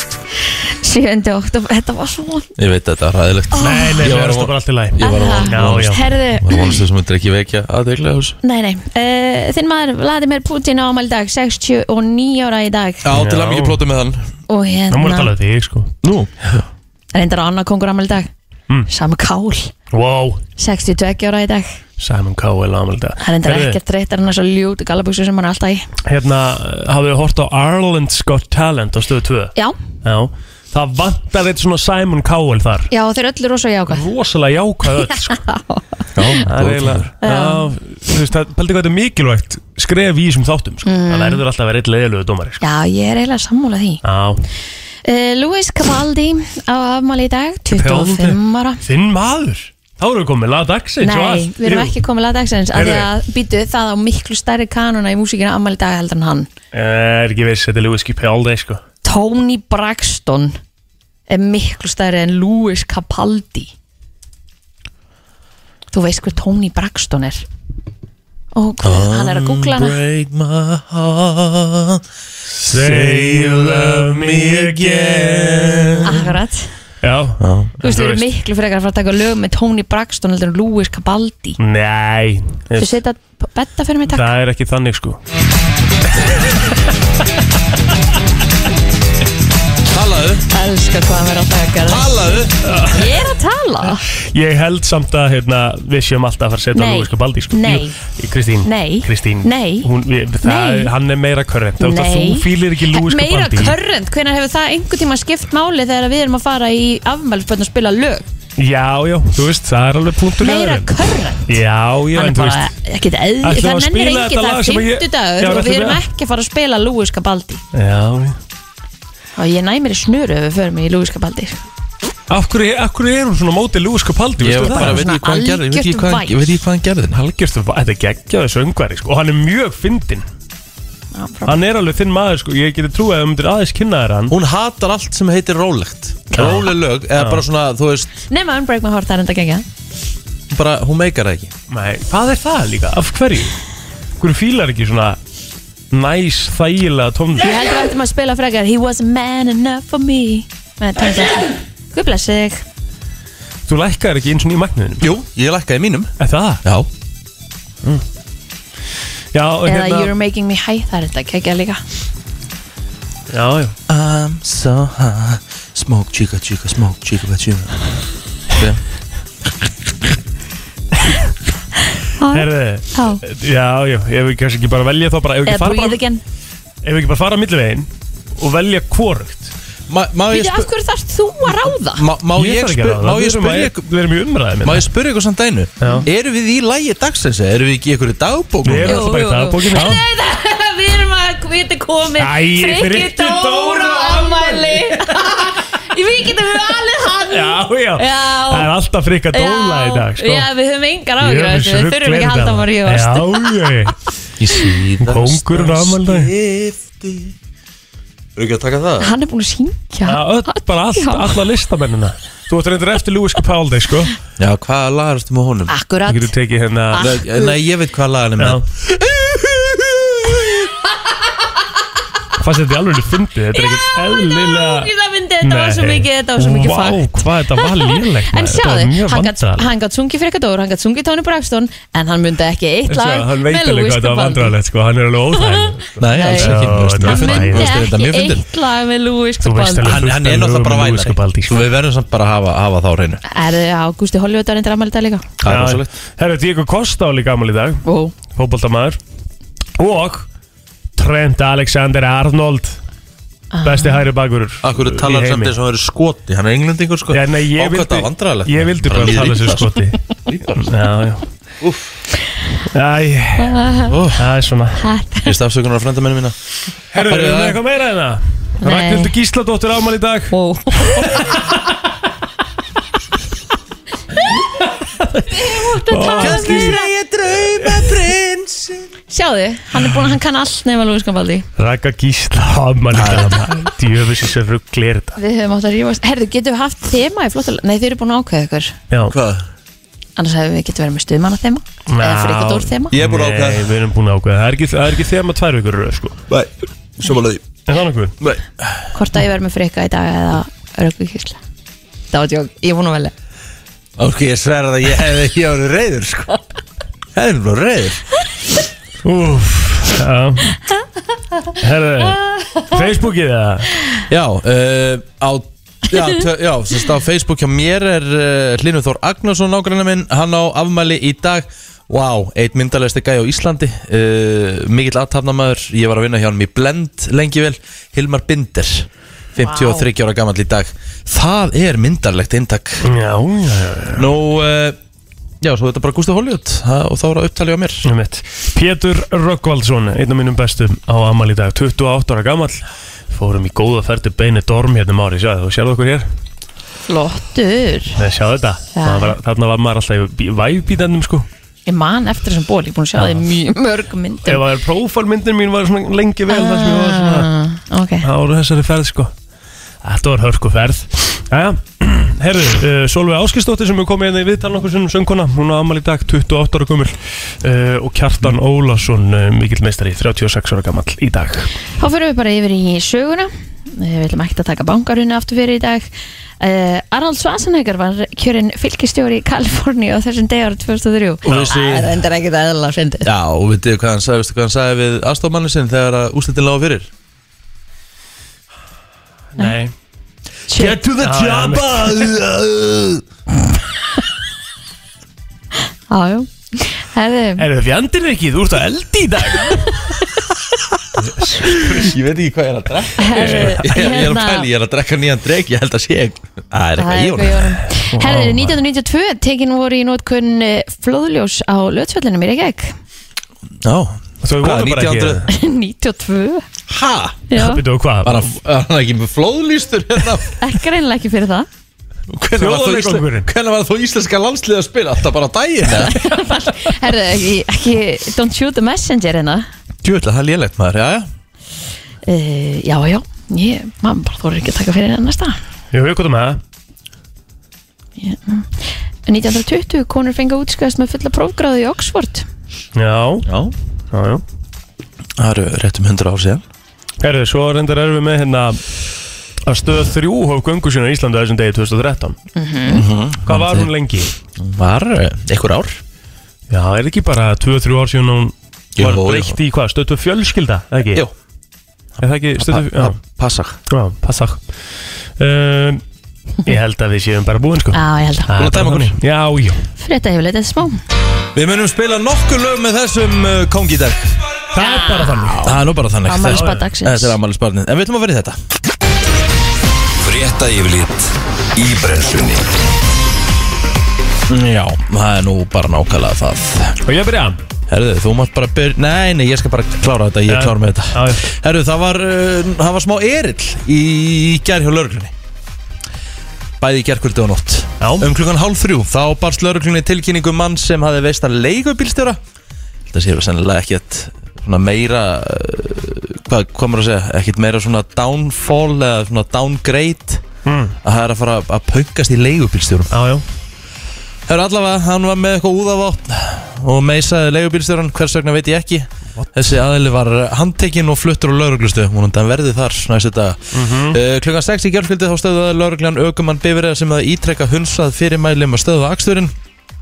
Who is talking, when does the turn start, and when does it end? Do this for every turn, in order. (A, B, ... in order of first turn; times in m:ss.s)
0:00.5-0:02.5 A
0:02.6-0:08.4 B
0:03.5-0:04.1 A
0:03.6-0:06.1 C
0:05.0-0:06.8 A
0:08.4-0:13.1 A
0:13.0-0:14.2 B
0:13.1-0:13.8 C
0:14.5-0:15.3 A
0:14.9-0:15.9 C
0:16.0-0:16.6 B
0:17.1-0:18.3 A
0:18.9-0:19.7 A
0:19.9-0:20.4 C
0:20.6-0:21.7 A
0:22.0-0:23.8 C
0:23.2-0:25.9 A
0:26.1-0:32.9 C
0:32.9-0:34.0 A
0:33.9-0:35.4 C
0:35.3-0:35.8 A
0:36.1-0:37.1 B
0:36.4-0:42.6 C
0:37.2-0:37.6 A
0:40.8-0:41.4 A
0:42.6-0:44.0 A
0:44.0-0:44.4 C
0:45.0-0:48.8 A
0:47.7-0:52.0 C
0:51.0-0:56.5 A
0:52.7-0:53.1 C
0:56.7-0:58.8 C
0:59.0-1:00.6 A
1:01.3-1:03.7 A
1:05.9-1:07.4 A
1:08.5-1:10.0 A
1:08.8-1:12.0 B
1:12.6-1:16.2 C
1:12.6-1:16.3 B
1:16.0-1:16.7 A
1:17.0-1:18.2 C
1:17.4-1:17.7 B
1:17.8-1:21.6 A
1:21.6-1:22.9 C
1:22.8-1:24.3 A
1:24.1-1:25.2 C
1:29.9-1:30.4 B
1:30.5-1:34.0 A
1:31.8-1:32.7 B
1:32.6-1:33.2 C
1:34.3-1:43.8 C
1:36.7-1:38.0 A
1:38.6-1:39.9 A
1:40.4-1:40.9 A
1:41.8-1:48.3 A
1:48.6-1:50.9 C
1:50.4-1:51.6 A
1:51.5-1:52.7 C
1:52.1-1:57.6 A
1:53.4-1:56.0 C
1:57.7-1:58.4 C
1:59.4-2:01.6 A
2:02.3-2:05.0 C
2:04.4-2:07.2 B
2:04.7-2:06.4 A
2:07.1-2:10.2 C
2:11.1-2:11.6 A
2:11.5-2:14.3 C
2:14.3-2:18.1 B
2:16.4-2:17.4 C
2:18.3-2:19.6 A
2:20.5-2:21.5 B
2:21.7-2:23.6 C
2:24.2-2:25.2 C
2:25.9-2:27.5 C
2:27.4-2:32.6 A
2:33.7-2:35.1 C
2:35.0-2:36.9 B
2:36.2-2:36.6 C
2:39.3-2:40.1 C
2:39.6-2:41.8 A
2:43.3-2:43.8 C
2:43.9-2:47.8 B
2:48.5-2:48.8 B
2:52.2-2:53.2 A
2:52.3-2:56.0 C
2:55.4-2:56.2 A
2:56.8-2:59.5 C
2:59.9-3:00.7 B
3:00.3-3:02.0 A
3:01.9-3:03.8 B
3:02.4-3:04.8 C
3:04.6-3:09.1 B
3:08.6-3:10.0 C
3:08.8-3:18.7 A
3:09.7-3:10.0 B
3:12.2-3:15.5 C
3:17.3-3:20.5 C
3:19.3-3:23.7 A
3:21.2-3:24.0 C
3:24.4-3:27.3 B
3:25.0-3:26.3 C
3:28.4-3:29.1 B
3:29.0-3:31.4 A
3:30.0-3:34.1 C
3:34.4-3:35.7 B
3:35.7-3:36.3 A
3:36.1-3:37.1 C
3:36.9-3:37.5 A
3:37.0-3:40.7 B
3:38.4-3:38.6 C
3:42.4-3:44.9 C
3:43.5-3:54.5 A
3:45.4-3:49.7 C
3:52.9-3:57.8 C
3:55.4-4:00.0 A
3:56.0-3:58.4 B
3:59.4-4:01.6 C
3:59.8-4:03.2 B
4:03.3-4:05.2 A
4:05.4-4:05.9 B
4:05.4-4:09.0 C
4:07.8-4:08.1 A
4:09.8-4:10.3 C
4:11.0-4:12.8 C
4:13.5-4:14.0 A
4:13.6-4:15.6 C
4:14.6-4:20.7 B
4:17.1-4:20.0 C
4:20.6-4:21.2 C
4:21.6-4:22.0 B
4:22.7-4:24.8 C
4:23.4-4:23.9 A
4:23.9-4:24.2 B
4:24.8-4:25.3 A
4:25.2-4:26.3 B
4:26.9-4:30.3 C
4:27.0-4:27.6 B
4:28.6-4:29.1 A
4:30.3-4:31.4 A
4:31.0-4:31.6 C
4:34.7-4:36.8 C
4:35.3-4:36.9 A
4:36.1-4:38.9 B
4:37.4-4:38.0 C
4:39.1-4:41.4 A
4:41.6-4:45.2 C
4:42.9-4:43.4 B
4:45.2-4:48.8 A
4:48.9-4:49.2 C
4:49.1-4:49.5 B
4:50.2-4:52.9 A
4:51.9-4:56.2 C
4:52.9-4:53.7 B
4:56.3-4:57.4 B
4:57.7-4:58.1 C
4:58.2-4:58.8 B
4:58.9-5:01.4 A
5:02.1-5:03.1 A
5:04.0-5:06.3 B
5:07.1-5:08.0 B
5:09.0-5:10.6 C
5:11.6-5:13.7 C
5:14.1-5:32.8 B
5:29.4-5:29.8 A
5:32.8-5:34.1 C
5:33.9-5:34.8 B
5:35.4-5:37.9 B
5:37.8-5:46.0 C
5:46.8-5:48.0 A
5:48.0-5:51.3 C
5:48.7-5:49.1 A
5:51.7-5:54.4 A
5:53.0-5:53.2 C
5:54.2-5:57.3 C
5:56.3-5:58.1 A
5:58.0-5:59.1 C
5:59.8-6:11.5 C
6:11.8-6:15.9 A
6:16.4-6:23.1 A
6:21.2-6:22.0 B
6:21.3-6:21.5 C
6:23.0-6:26.9 B
6:29.4-6:29.7 C
6:30.5-6:30.8 A
6:30.5-6:33.0 B
6:31.0-6:32.1 C
6:35.9-6:37.4 A
6:37.4-6:39.8 C
6:41.0-6:41.9 C
6:41.7-6:47.6 B
6:43.0-6:44.5 A
6:43.2-6:43.7 C
6:46.8-6:52.7 A
6:47.9-6:48.6 C
6:53.6-6:55.2 B
6:54.2-6:55.2 C
6:55.3-6:56.4 A
6:56.7-6:57.2 B
6:57.3-6:57.6 A
6:57.3-6:58.2 C
6:58.0-7:00.4 B
7:00.4-7:01.5 A
7:02.1-7:06.0 B
7:02.4-7:03.3 C
7:05.9-7:09.5 A
7:09.8-7:11.1 B
7:12.0-7:15.4 A
7:15.7-7:16.4 C
7:18.0-7:22.2 A
7:22.8-7:23.3 C
7:23.2-7:23.5 B
7:23.9-7:24.2 C
7:25.2-7:26.4 B
7:27.0-7:28.6 C
7:29.5-7:32.2 C
7:32.4-7:32.8 A
7:32.7-7:33.7 B
7:33.2-7:34.1 C
7:34.3-7:35.8 B
7:36.5-7:41.0 C
7:38.8-7:39.4 B
7:42.0-7:43.6 B
7:42.0-7:43.0 C
7:43.7-7:44.4 C
7:45.2-7:45.8 C
7:46.4-7:49.6 C
7:47.7-7:48.3 A
7:48.4-7:49.0 B
7:49.8-7:50.8 A
7:51.3-7:54.2 B
7:54.5-7:55.5 C
7:54.6-7:57.2 A
7:55.4-7:58.4 B
7:56.3-7:56.6 C
8:00.0-8:02.5 D
8:04.3-8:06.8 B
8:06.8-8:07.4 C
8:07.7-8:15.1 B
8:10.3-8:11.3 C
8:16.6-8:22.2 B
8:17.8-8:18.1 C
8:22.9-8:30.2 B
8:30.4-8:30.8 C
8:30.8-8:32.9 B
8:32.9-8:33.2 C
8:34.3-8:49.3 B
8:43.5-8:44.0 C